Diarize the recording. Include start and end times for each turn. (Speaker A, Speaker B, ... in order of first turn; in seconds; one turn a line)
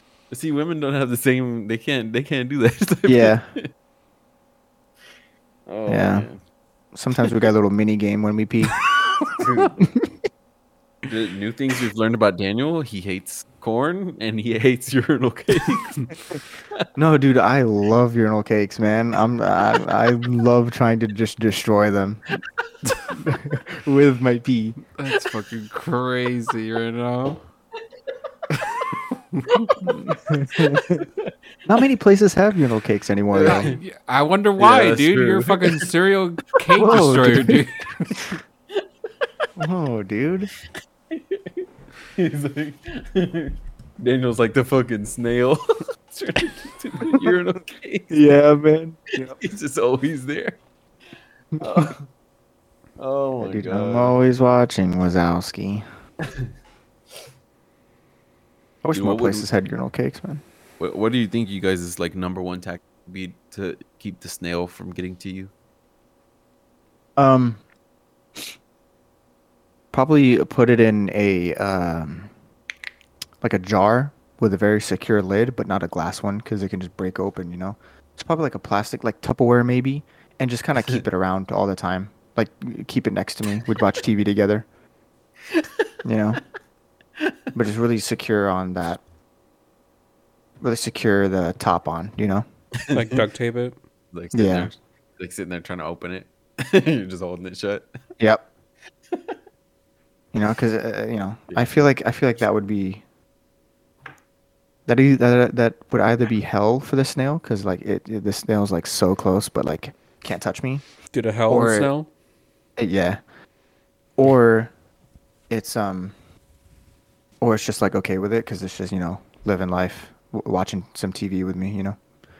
Speaker A: 0.3-3.7
Speaker B: 3.0-3.5
Speaker A: 5.7-6.4
Speaker B: 5.9-6.3
Speaker B: 6.9-8.8
Speaker A: 9.2-9.9
Speaker B: 9.8-10.1
Speaker A: 11.1-16.2
Speaker B: 16.9-22.4
Speaker B: 23.1-24.8
Speaker C: 24.9-27.4
Speaker C: 29.3-29.7
Speaker A: 29.6-31.3
Speaker B: 30.2-31.1
Speaker B: 31.6-33.7
Speaker A: 33.3-33.8
Speaker C: 33.5-38.4
Speaker A: 34.6-35.9
Speaker B: 36.8-37.6
Speaker B: 39.6-40.5
Speaker A: 41.1-48.1
Speaker B: 48.1-49.4
Speaker A: 49.2-50.6
Speaker B: 51.6-51.9
Speaker A: 51.6-52.0
Speaker A: 53.0-54.2
Speaker B: 53.4-55.8
Speaker B: 58.8-60.4
Speaker A: 58.9-59.5
Speaker A: 60.8-65.5
Speaker B: 67.2-67.6
Speaker B: 69.9-72.3
Speaker B: 73.4-84.7
Speaker A: 85.5-85.8
Speaker B: 86.0-86.4
Speaker B: 87.5-89.0
Speaker B: 90.6-92.4
Speaker A: 92.8-93.2
Speaker C: 92.9-93.8
Speaker A: 94.1-97.9
Speaker B: 94.3-94.7
Speaker B: 98.2-98.5
Speaker B: 100.3-103.0
Speaker A: 101.5-101.7
Speaker B: 104.8-110.8
Speaker C: 111.1-112.1
Speaker B: 111.5-111.9
Speaker B: 112.8-113.2
Speaker B: 114.2-114.7
Speaker B: 115.5-116.1
Speaker B: 117.4-122.0